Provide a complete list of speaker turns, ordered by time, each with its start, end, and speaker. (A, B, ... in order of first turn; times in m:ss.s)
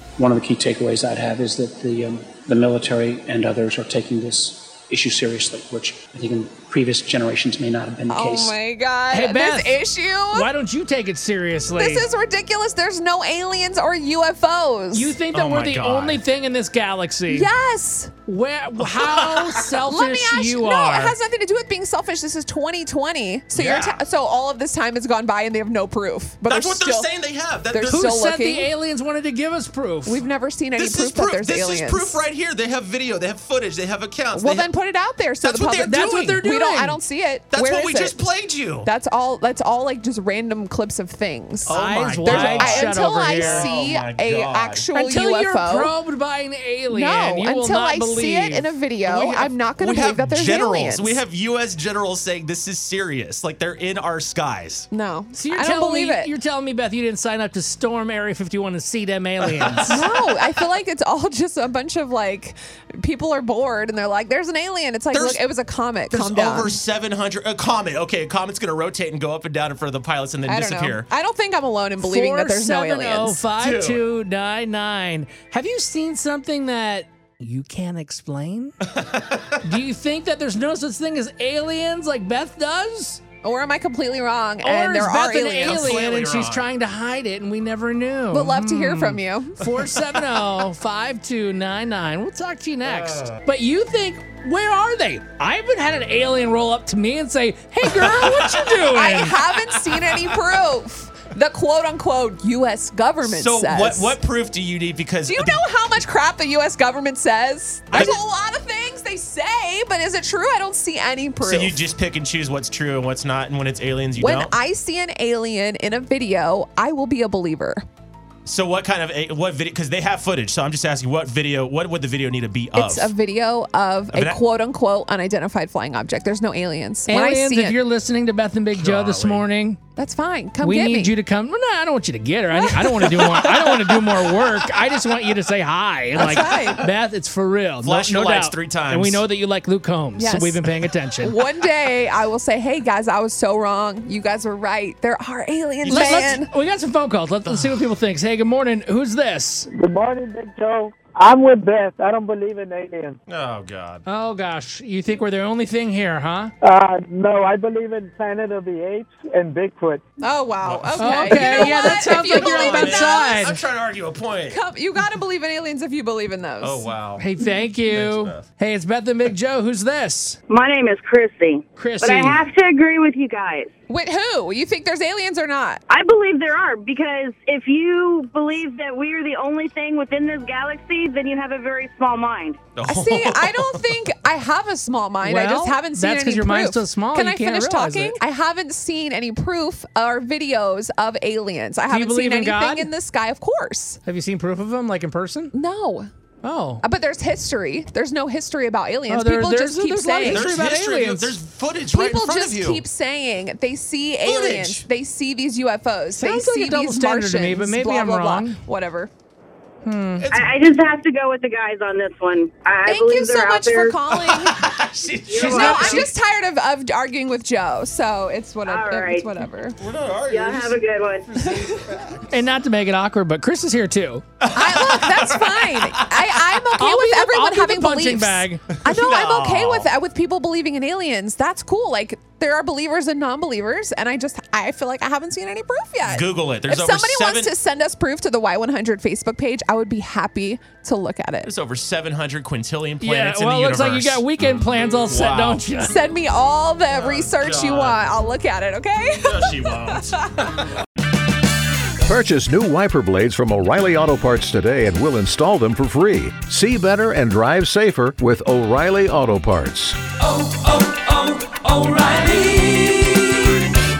0:00.2-0:08.6 A
0:08.1-0:10.5 B
0:09.1-0:09.8 C
0:10.3-0:12.0 C
0:11.7-0:15.1 B
0:14.9-0:17.5 C
0:15.3-0:16.2 D
0:17.3-0:18.1 B
0:18.3-0:21.2 C
0:18.8-0:19.6 D
0:19.9-0:27.1 B
0:23.5-0:24.0 D
0:26.4-0:28.1 D
0:27.7-0:28.7 B
0:27.9-0:30.2 C
0:30.0-0:32.2 B
0:30.8-0:34.8 D
0:34.3-0:38.2 B
0:35.4-0:36.4 D
0:35.8-0:37.0 C
0:37.5-0:38.9 D
0:38.8-0:45.9 B
0:41.6-0:44.9 D
0:41.7-0:43.7 C
0:44.9-0:48.7 C
0:46.9-0:51.2 B
0:49.0-0:54.9 D
0:54.9-0:56.3 B
0:55.3-1:00.0 C
0:59.4-1:00.6 D
0:59.9-1:06.8 B
1:05.1-1:05.4 D
1:06.1-1:11.1 D
1:10.4-1:13.4 B
1:12.0-1:18.7 C
1:13.6-1:14.0 D
1:18.9-1:19.6 D
1:19.6-1:23.2 C
1:23.4-1:26.0 B
1:24.6-1:39.4 C
1:25.6-1:26.7 D
1:28.3-1:29.6 B
1:29.8-1:30.3 D
1:32.8-1:33.4 D
1:37.9-1:38.8 D
1:38.9-1:44.2 B
1:39.9-1:40.2 D
1:43.2-1:45.6 D
1:45.3-1:51.8 B
1:47.9-1:48.2 D
1:51.4-1:54.5 D
1:54.2-1:57.8 B
1:58.4-2:03.1 D
2:02.7-2:07.8 B
2:04.1-2:04.4 D
2:07.1-2:09.8 C
2:08.7-2:09.4 D
2:10.0-2:11.1 B
2:10.6-2:21.3 C
2:12.5-2:12.9 B
2:13.0-2:14.1 D
2:16.2-2:16.8 B
2:17.8-2:19.2 D
2:20.2-2:20.6 B
2:21.2-2:26.5 B
2:25.8-2:26.4 D
2:25.9-2:29.7 C
2:27.4-2:27.9 D
2:29.7-2:33.2 E
2:33.3-2:34.0 D
2:34.0-2:36.5 C
2:36.6-2:40.0 E
2:40.2-2:43.4 B
2:40.6-2:45.0 D
2:41.0-2:43.6 C
2:44.5-2:46.9 B
2:46.6-2:47.2 D
2:47.2-2:50.4 C
2:47.9-2:48.4 D
2:50.5-2:53.7 F
2:51.7-2:52.4 C
2:53.9-2:55.8 B
2:55.9-3:02.6 F
3:02.8-3:03.8 D
3:02.8-3:14.0 B
3:05.2-3:08.2 C
3:11.9-3:12.9 C
3:14.0-3:15.5 C
3:15.5-3:16.1 B
3:16.4-3:16.8 C
3:16.8-3:20.6 B
3:19.1-3:21.4 C
3:20.2-3:22.8 D
3:21.9-3:29.1 B
3:24.2-3:24.8 D
3:26.2-3:28.6 C
3:29.8-3:30.3 C
3:30.2-3:30.6 D
3:30.3-3:34.0 F
3:32.8-3:34.6 B
3:34.1-3:36.1 D
3:35.3-3:36.1 F
3:35.4-3:36.1 C
3:35.4-3:39.8 B
3:38.6-3:39.3 F
3:39.8-3:42.3 D
3:40.3-3:41.3 F
3:41.4-3:41.8 B
3:42.3-3:44.2 C
3:44.4-3:46.8 D
3:44.5-4:01.5 B
3:46.8-3:48.6 C
3:48.7-3:49.9 D
3:56.0-3:57.5 D
4:01.4-4:04.3 D
4:03.0-4:06.0 C
4:05.1-4:05.6 D
4:05.8-4:10.2 B
4:06.9-4:08.1 D
4:09.2-4:10.5 D
4:12.0-4:20.0 G